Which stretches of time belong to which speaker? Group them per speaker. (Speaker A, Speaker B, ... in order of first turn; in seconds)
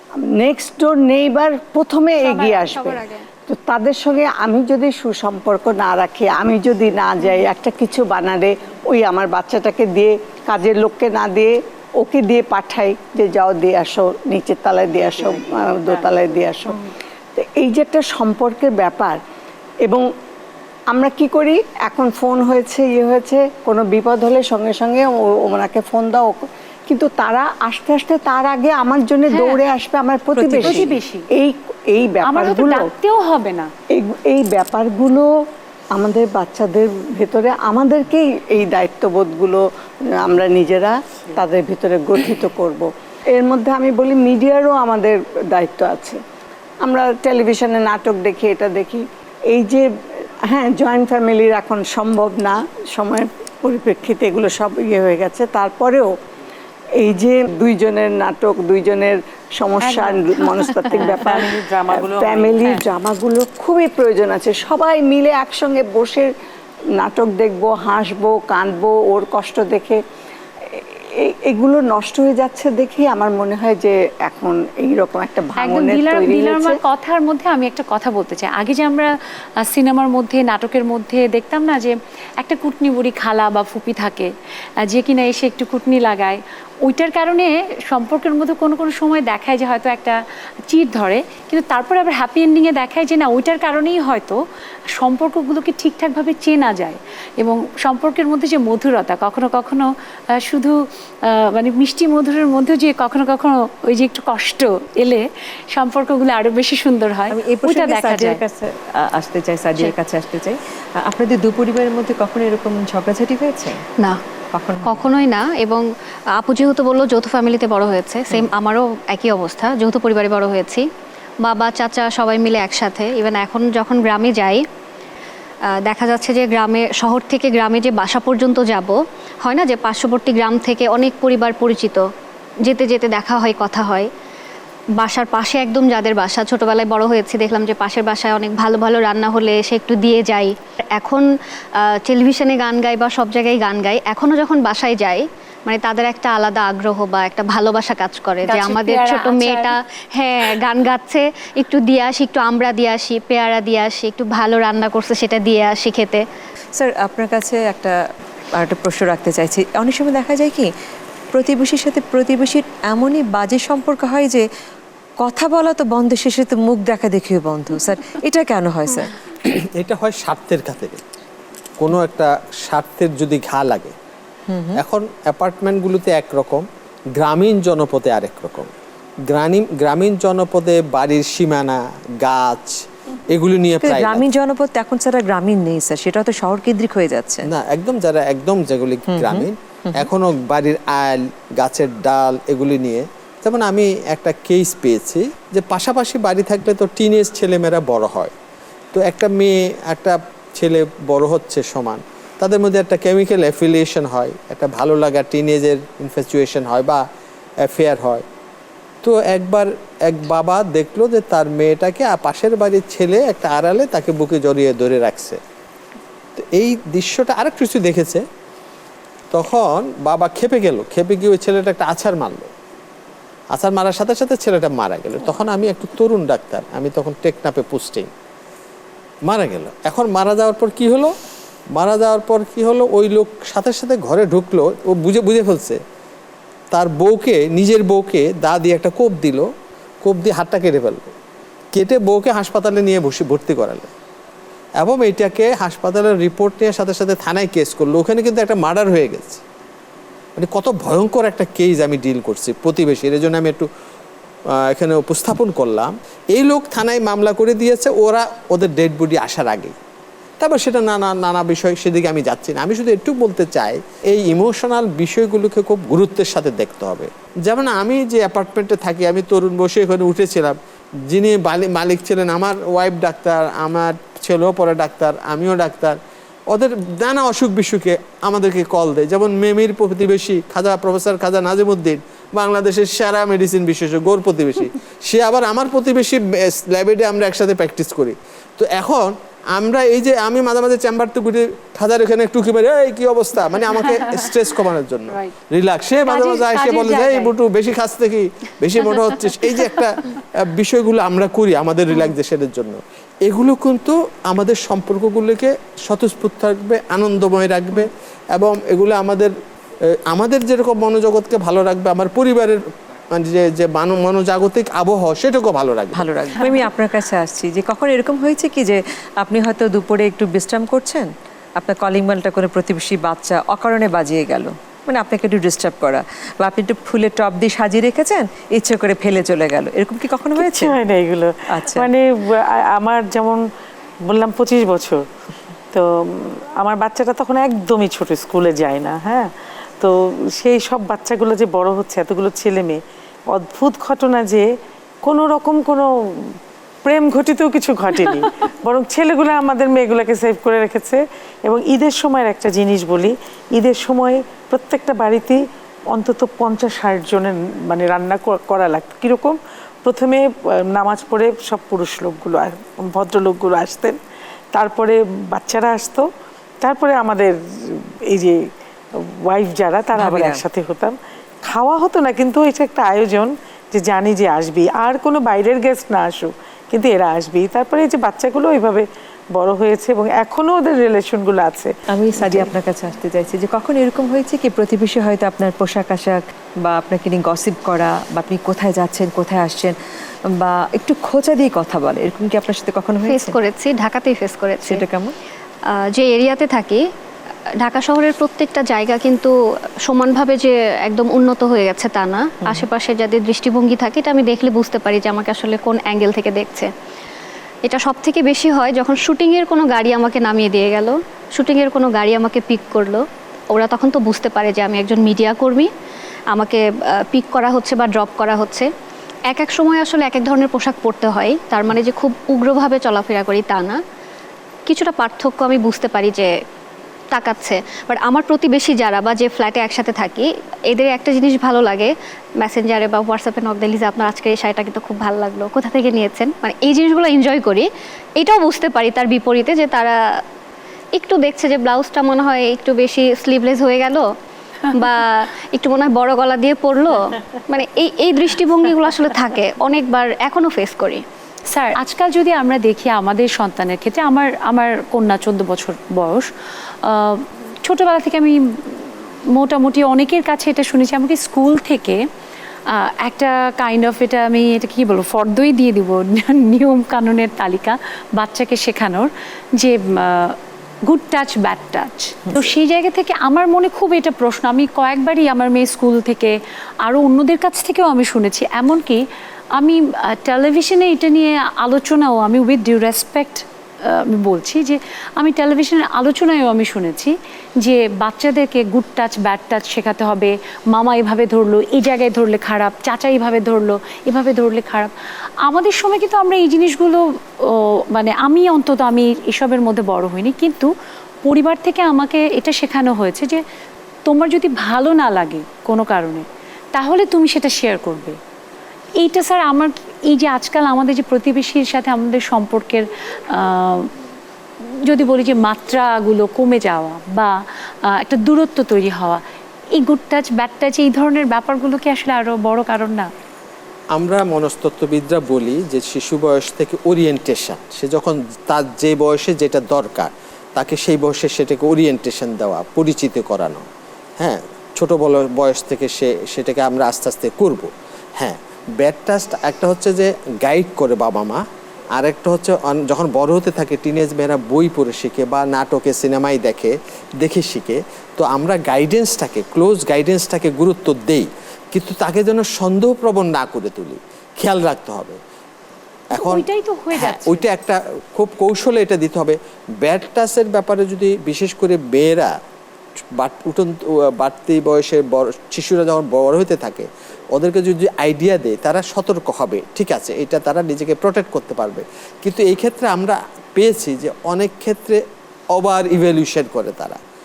Speaker A: 0.2-19.2, 20.9-32.9, 33.9-35.3, 35.9-46.2, 46.8-49.9, 50.5-56.1, 57.0-66.3, 67.0-70.0, 70.7-76.8
Speaker B: 2.2-3.3, 114.8-120.9, 121.4-124.7, 125.8-132.1, 132.6-134.1, 135.0-156.2, 393.1-394.8, 395.8-396.8, 397.6-406.7, 407.6-415.7, 416.3-418.7, 419.3-423.8, 424.7-426.3, 427.1-440.2, 440.9-444.1, 444.7-451.0
Speaker C: 29.3-29.6, 30.6-31.3, 32.2-33.7, 59.8-61.1, 75.6-94.4, 94.9-108.4, 148.4-149.7, 296.1-297.3, 451.5-456.3, 456.8-462.0, 462.7-500.7, 501.2-503.4, 504.1-508.2, 509.0-513.9, 514.6-519.2, 519.8-523.1, 556.1-557.5
Speaker D: 30.3-31.0, 107.3-113.8, 114.5-115.1, 156.8-158.0, 158.6-160.7, 161.3-164.5, 165.2-169.1, 174.5-174.8, 183.8-187.5, 189.1-190.1, 315.9-330.8, 331.5-331.9, 369.9-370.4, 381.9-389.8, 390.3-393.4, 394.6-395.2
Speaker E: 60.9-62.8, 330.4-333.4, 334.1-335.1, 335.7-344.5, 345.0-364.0, 364.5-366.1, 366.6-368.4, 368.9-381.7
Speaker F: 169.6-171.0, 171.8-173.9, 174.8-176.7, 177.2-178.7, 179.3-184.3, 187.5-198.3, 198.9-207.0, 207.6-208.2, 209.0-215.4, 216.4-218.2, 219.3-222.5, 223.5-228.1, 229.3-231.1, 231.7-235.8, 236.7-239.5, 240.0-241.1, 241.7-243.9, 244.8-249.4, 250.4-253.7, 254.5-259.8, 260.4-270.6, 271.1-276.0, 276.5-309.3, 310.1-316.1, 523.9-533.7, 534.2-541.4, 542.0-555.2, 556.1-562.3, 563.2-575.0, 575.5-577.0